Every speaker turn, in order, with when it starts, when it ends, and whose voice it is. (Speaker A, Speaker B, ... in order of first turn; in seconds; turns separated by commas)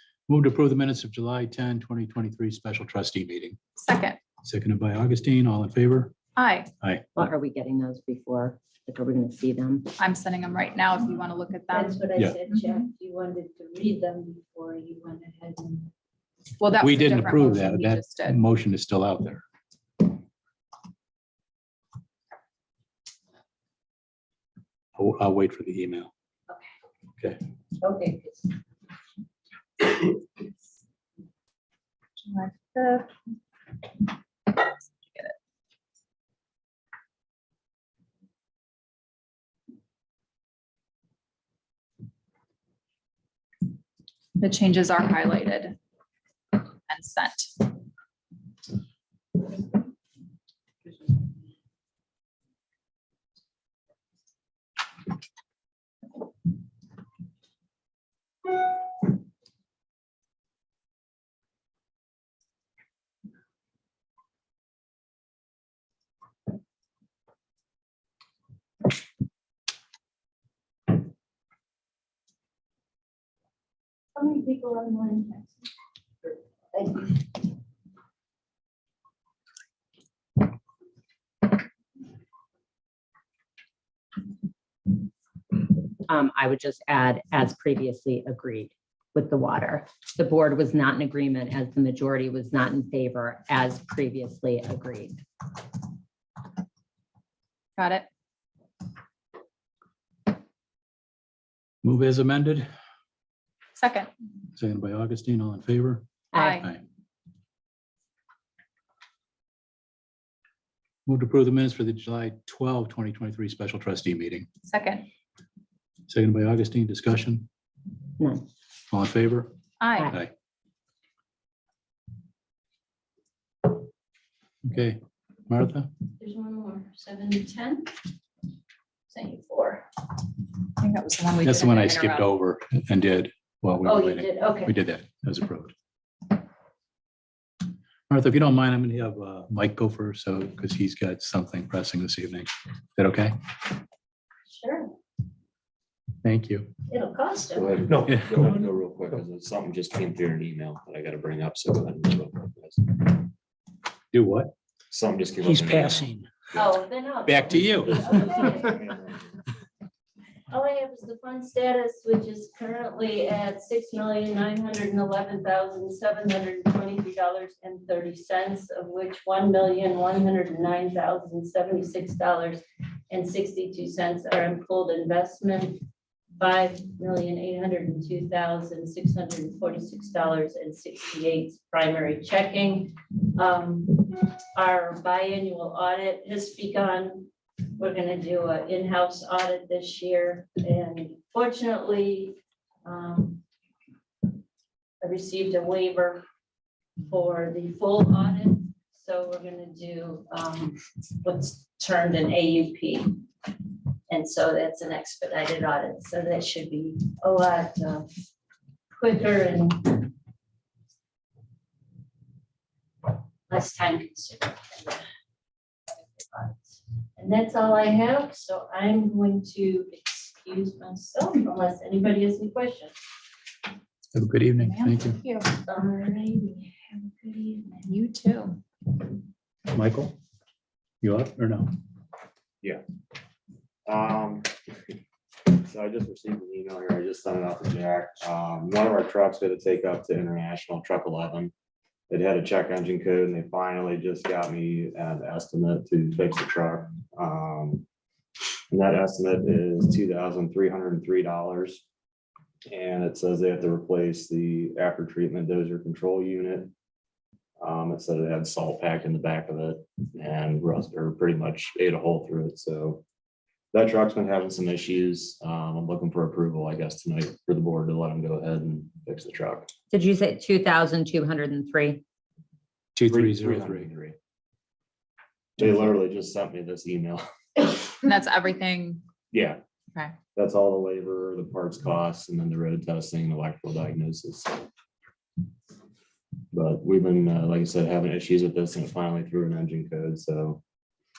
Speaker A: 0.3-3.6, Speaker B: 3.8-4.2, Speaker A: 4.3-6.2, Speaker B: 6.4-6.7, Speaker C: 7.2-9.9, Speaker B: 10.0-12.6, Speaker D: 11.7-15.9, Speaker B: 16.6-18.4, Speaker A: 16.8-19.4, Speaker A: 25.0-26.1, Speaker D: 27.8-28.5, Speaker B: 32.2-33.2, Speaker B: 34.5-35.4, Speaker B: 44.4-45.8, Speaker B: 46.9-47.6, Speaker D: 74.2-75.5, Speaker D: 76.7-77.3, Speaker C: 86.0-95.2, Speaker B: 97.8-98.1, Speaker A: 101.8-102.7, Speaker B: 103.8-104.1, Speaker A: 104.5-106.0, Speaker B: 106.3-106.7, Speaker A: 111.1-114.5, Speaker B: 114.6-115.1, Speaker A: 116.1-117.5, Speaker C: 118.2-118.5, Speaker A: 118.9-119.5, Speaker B: 119.8-120.1, Speaker A: 124.7-125.9, Speaker D: 126.2-127.9, Speaker D: 129.1-129.9, Speaker B: 130.8-132.3, Speaker A: 131.4-135.7, Speaker D: 133.8-134.7, Speaker A: 138.1-143.4, Speaker D: 144.5-144.9, Speaker A: 146.2-146.7, Speaker D: 146.9-147.7, Speaker E: 147.6-153.2, Speaker A: 154.1-154.5, Speaker E: 154.9-156.7, Speaker A: 155.5-156.3, Speaker D: 156.5-158.9, Speaker A: 157.3-158.6, Speaker E: 157.5-159.1, Speaker D: 160.5-175.8, Speaker D: 176.4-193.4, Speaker D: 195.0-196.2, Speaker D: 197.0-203.5, Speaker D: 204.1-208.1, Speaker D: 208.9-210.1, Speaker D: 213.5-215.1, Speaker D: 215.9-222.9, Speaker A: 224.1-225.2, Speaker B: 224.6-225.5, Speaker D: 225.5-227.9, Speaker B: 227.9-228.6, Speaker A: 229.7-230.2, Speaker A: 231.0-231.7, Speaker E: 233.9-234.5, Speaker E: 235.5-241.5, Speaker E: 242.1-247.8, Speaker E: 248.7-251.8, Speaker E: 252.7-256.7, Speaker E: 257.6-263.0, Speaker E: 263.7-269.7, Speaker C: 269.9-272.0, Speaker A: 273.0-273.9, Speaker E: 273.1-274.2, Speaker E: 275.6-277.7, Speaker B: 278.0-279.0, Speaker E: 279.3-279.6, Speaker E: 280.4-284.6, Speaker E: 286.5-290.6